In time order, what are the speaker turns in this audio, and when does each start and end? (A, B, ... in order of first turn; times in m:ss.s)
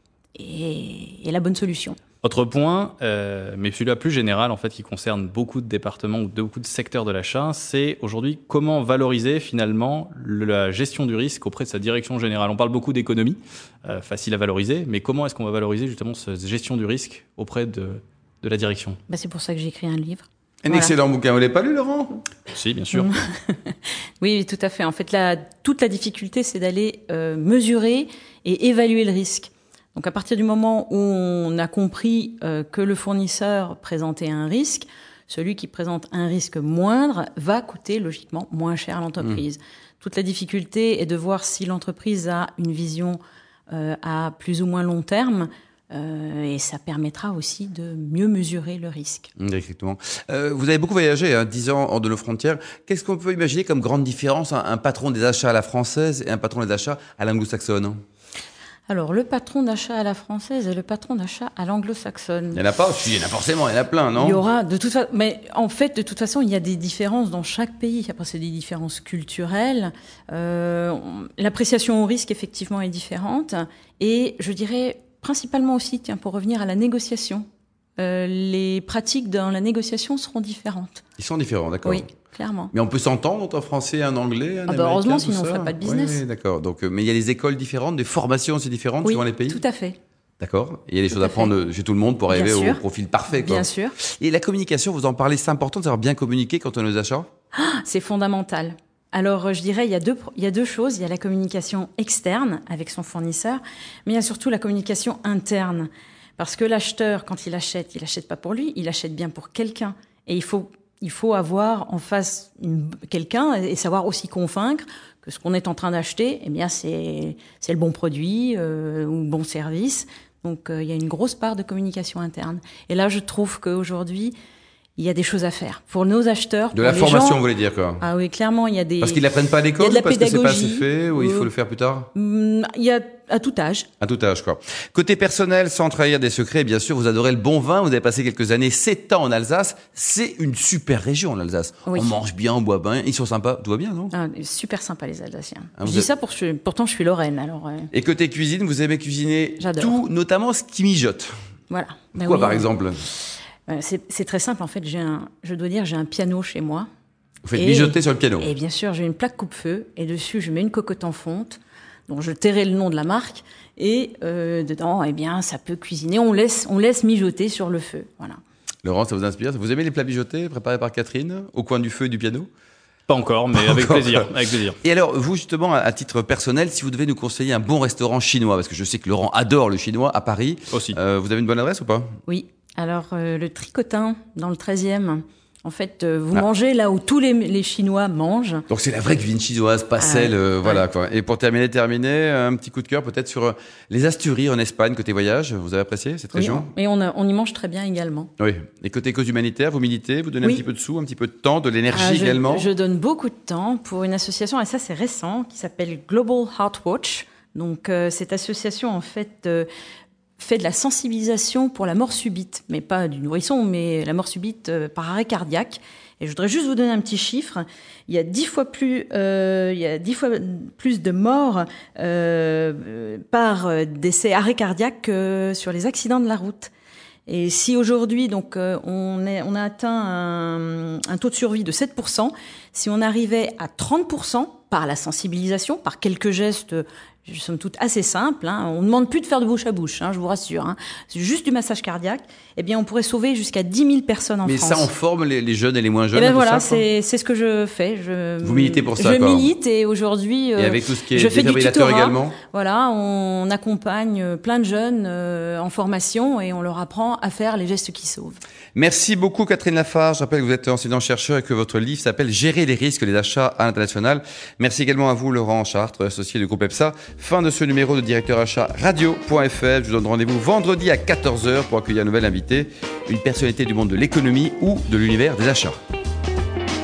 0:00.4-0:02.0 A
0:02.2-0:19.0 B
0:19.1-0:20.9 A
0:20.6-0:22.2 C
0:22.5-0:23.1 B
0:22.9-0:43.2 A
0:43.7-0:49.3 A
0:49.4-0:58.0 C
0:58.9-1:02.6 A
1:02.5-1:04.4 C
1:04.1-1:17.4 A
1:18.0-1:21.0 A
1:21.2-1:22.0 C
1:21.8-1:22.7 A
1:22.7-1:29.6 C
1:24.7-1:26.2 A
1:29.0-1:30.0 A
1:30.4-1:37.3 C
1:31.1-1:31.5 A
1:32.3-1:34.0 A
1:37.5-2:04.3 A
2:05.0-2:07.4 A
2:06.7-2:08.0 C
2:08.0-2:11.5 A
2:09.0-2:12.1 C
2:12.1-2:13.9 A
2:14.0-2:24.1 C
2:21.8-2:22.2 A
2:24.1-2:27.9 A
2:25.8-2:26.1 C
2:27.9-2:31.3 C
2:29.6-2:30.0 A
2:31.7-2:32.7 A
2:32.1-2:33.0 C
2:33.7-2:36.9 A
2:37.4-2:38.5 C
2:37.5-2:48.4 A
2:48.8-2:52.5 C
2:53.1-2:54.8 B
2:53.5-2:54.2 C
2:54.8-3:02.1 C
3:00.7-3:01.0 B
3:02.2-3:08.7 A
3:08.7-3:16.7 C
3:10.0-3:10.8 A
3:16.3-3:18.3 A
3:18.4-3:22.7 C
3:21.9-3:29.7 A
3:30.4-3:46.7 A
3:47.2-4:04.9 A
4:04.4-4:06.8 C
4:06.1-4:18.4 A
4:08.4-4:09.5 C
4:10.6-4:12.4 C
4:18.8-4:35.8 C